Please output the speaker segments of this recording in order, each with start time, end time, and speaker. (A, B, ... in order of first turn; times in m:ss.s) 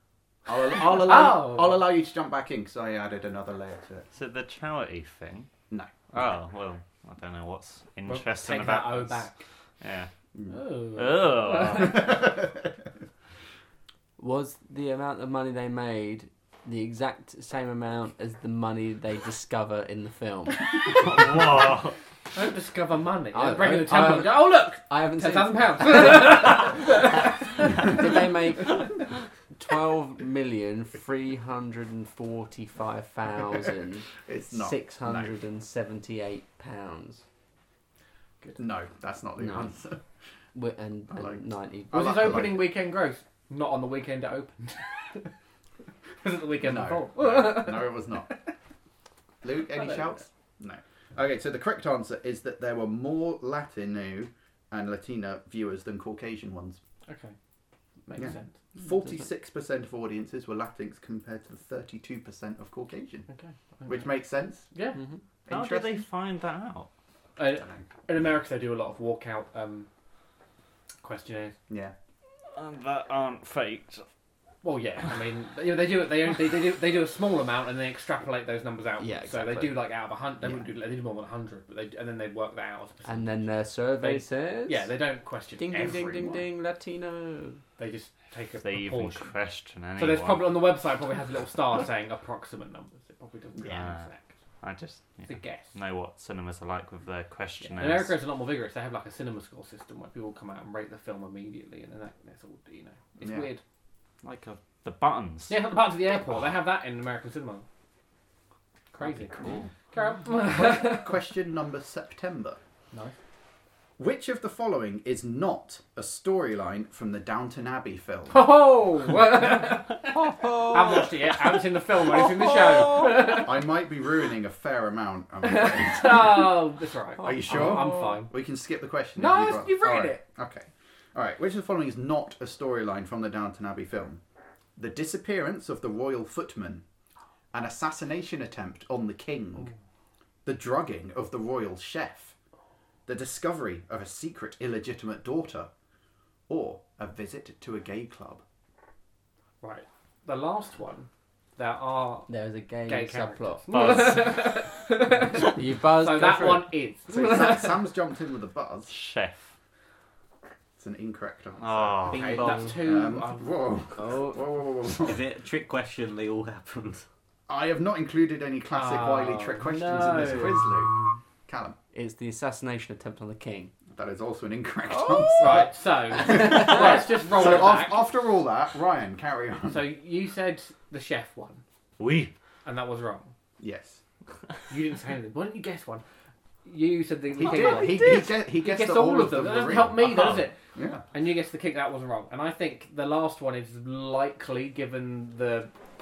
0:00.4-0:04.1 A
0:00.8-0:01.8 B
0:04.1-0:05.5 C
0:06.1-0:09.3 C
0:08.1-0:09.4 B
0:09.8-0:10.1 C
0:10.5-0:12.1 B
0:10.9-0:12.2 C
0:11.8-0:12.6 A
0:14.2-0:20.7 D
0:20.8-0:22.0 C
0:22.3-0:28.0 B
0:23.3-0:26.6 D
0:27.6-0:37.2 D
0:34.2-0:35.3 A
0:38.6-0:40.0 A
0:39.4-0:39.7 D
0:40.5-0:42.2 D
0:41.1-0:42.7 A
0:41.9-0:45.3 B
0:46.2-0:48.5 B
0:46.6-0:48.3 A
0:49.4-0:56.8 A
0:49.7-0:50.2 B
0:57.0-0:57.4 B
0:58.0-0:58.6 B
0:58.1-1:03.3 A
1:03.3-1:05.0 B
1:03.8-1:04.7 A
1:05.4-1:06.0 A
1:05.5-1:06.9 C
1:07.4-1:09.9 B
1:11.0-1:11.6 B
1:11.7-1:11.9 A
1:12.5-1:14.1 C
1:14.6-1:26.2 B
1:19.0-1:19.8 D
1:23.0-1:24.9 D
1:25.6-1:27.6 D
1:25.7-1:26.4 A
1:27.8-1:29.3 B
1:28.6-1:30.5 C
1:30.0-1:34.3 B
1:33.6-1:33.8 A
1:33.6-1:34.0 C
1:34.6-1:38.2 C
1:35.2-1:35.7 B
1:37.6-1:43.6 B
1:43.2-1:43.5 A
1:44.2-1:45.6 C
1:45.5-1:47.6 B
1:48.9-1:51.2 B
1:49.0-1:49.6 A
1:49.4-1:49.7 C
1:50.4-1:52.6 A
1:54.0-1:58.5 A
1:58.3-2:03.6 B
2:03.1-2:06.4 A
2:05.4-2:08.3 B
2:07.2-2:08.2 D
2:07.2-2:14.2 A
2:09.2-2:10.2 B
2:14.8-2:16.8 A
2:17.5-2:19.7 A
2:20.4-2:22.4 A
2:23.1-2:25.7 A
2:26.5-2:28.4 A
2:29.6-2:32.3 B
2:32.3-2:34.0 D
2:32.8-2:37.9 B
2:33.7-2:34.5 C
2:35.4-2:36.7 D
2:37.1-2:38.9 A
2:38.9-2:39.5 C
2:40.8-2:45.2 A
2:41.6-2:42.6 C
2:42.1-2:43.6 B
2:42.3-2:42.8 E
2:44.0-2:44.5 D
2:45.0-2:47.0 E
2:47.5-2:50.9 A
2:48.7-2:50.7 B
2:51.5-2:51.8 A
2:51.9-2:53.7 D
2:53.9-2:59.8 A
2:54.9-2:55.6 D
2:55.4-2:58.0 B
2:56.2-2:57.0 D
2:59.7-3:01.6 B
3:02.0-3:02.3 C
3:02.6-3:03.3 B
3:03.6-3:04.0 A
3:04.7-3:06.0 B
3:06.6-3:15.7 B
3:07.4-3:11.0 A